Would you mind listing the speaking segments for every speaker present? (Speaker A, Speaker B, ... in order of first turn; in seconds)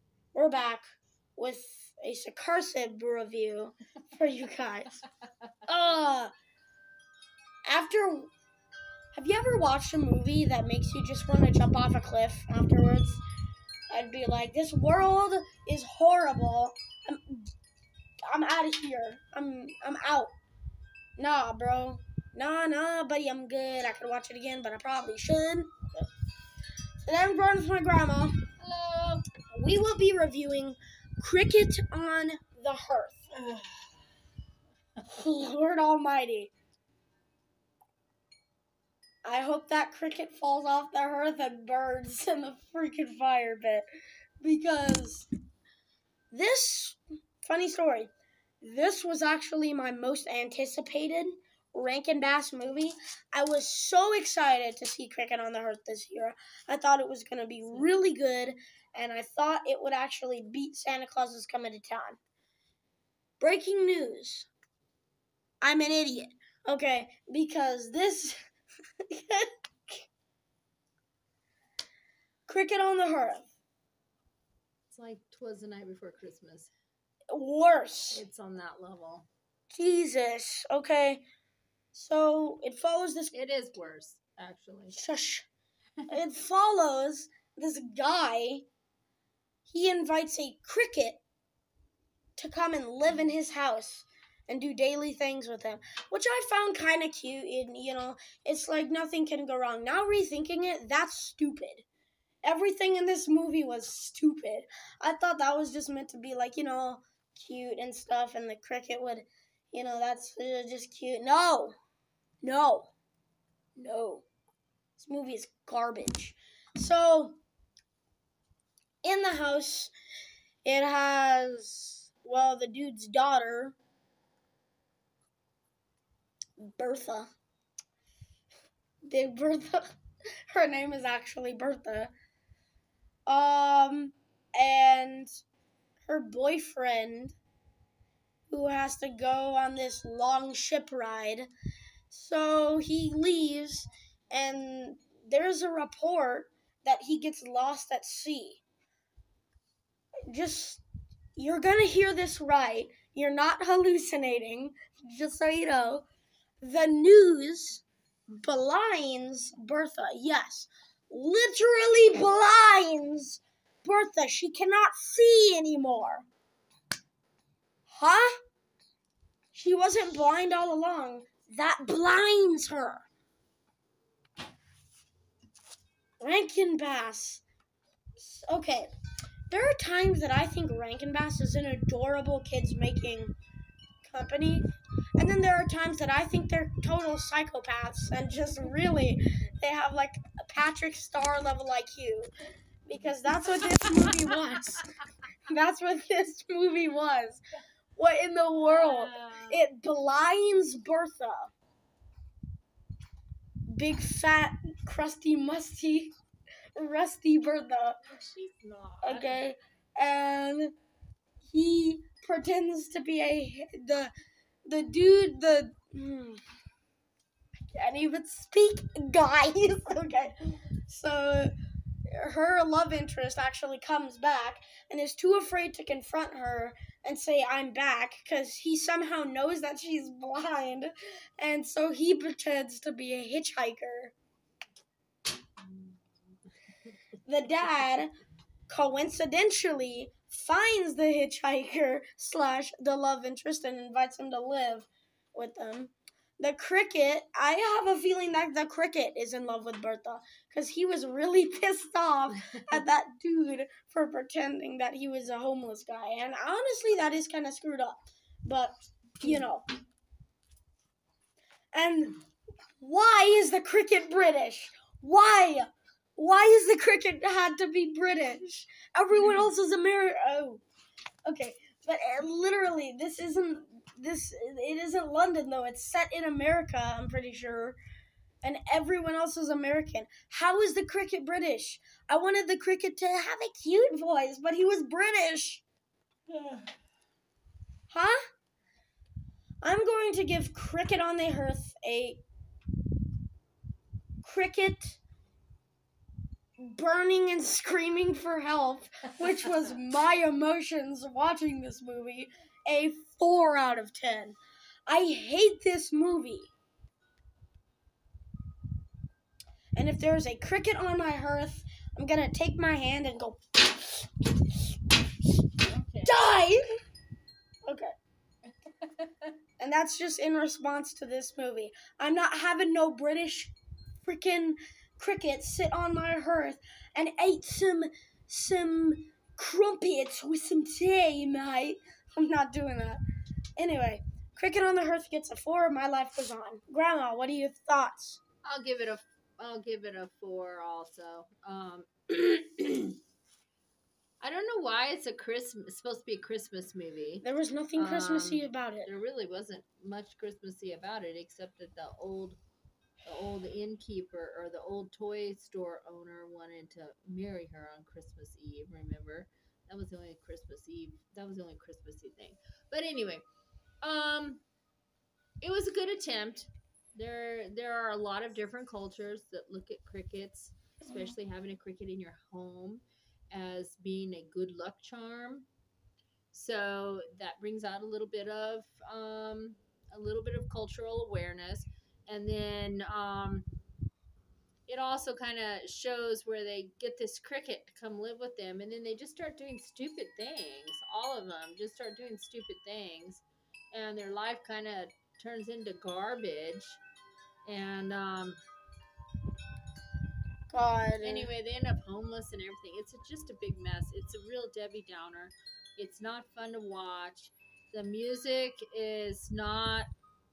Speaker A: 0.3-0.9, 1.4-5.0, 5.7-6.3, 7.7-8.3, 9.1-13.2, 13.9-17.4, 18.3-20.3, 21.2-26.1, 27.0-28.5, 29.4-33.2, 35.1-36.5, 39.2-43.9, 44.4-45.3, 46.3-62.2, 63.4-64.5, 65.6-68.4, 69.1-69.9, 72.5-73.5, 77.3-78.2, 79.7-81.2, 81.9-83.3, 84.9-85.5, 86.1-88.7, 89.7-91.2, 92.4-101.8, 102.4-111.8, 112.4-112.9, 113.8-114.3, 115.0-117.4, 119.0-119.9, 120.7-123.8, 126.6-127.3, 129.1-129.8, 130.5-132.1, 133.3-135.4, 136.0-137.4, 138.5-141.5, 142.1-148.6, 150.3-150.8, 151.4-156.1, 156.6-157.8, 158.4-166.3, 167.9-168.3, 169.5-173.1, 176.2-177.4, 178.2-178.9, 179.5-183.3, 184.0-192.3, 192.9-194.9, 195.5-197.4, 198.0-201.5, 203.7-206.1, 206.8-208.0, 209.0-210.7, 211.5-214.1, 214.7-216.4, 217.8-221.5, 222.1-234.1, 237.3-238.1, 238.7-259.7, 261.7-262.2, 262.8-270.6, 271.3-277.8, 278.4-285.6, 287.9-288.2, 289.6-292.2, 294.2-295.0, 296.6-306.5, 309.8-314.3, 316.1-316.6, 317.6-317.9, 319.6-333.0, 333.6-338.2, 347.2-348.9, 370.9-371.1, 400.5-401.3
Speaker B: 28.6-29.2, 74.9-76.7, 78.1-79.3, 83.3-85.0, 198.6-199.6, 208.1-209.4, 235.6-236.0, 315.6-316.1, 318.8-319.3, 338.4-343.0, 344.2-347.2, 347.8-352.4, 353.1-363.2, 363.8-364.4, 365.4-375.5, 376.3-383.5, 384.7-396.8, 397.5-398.4, 401.0-409.9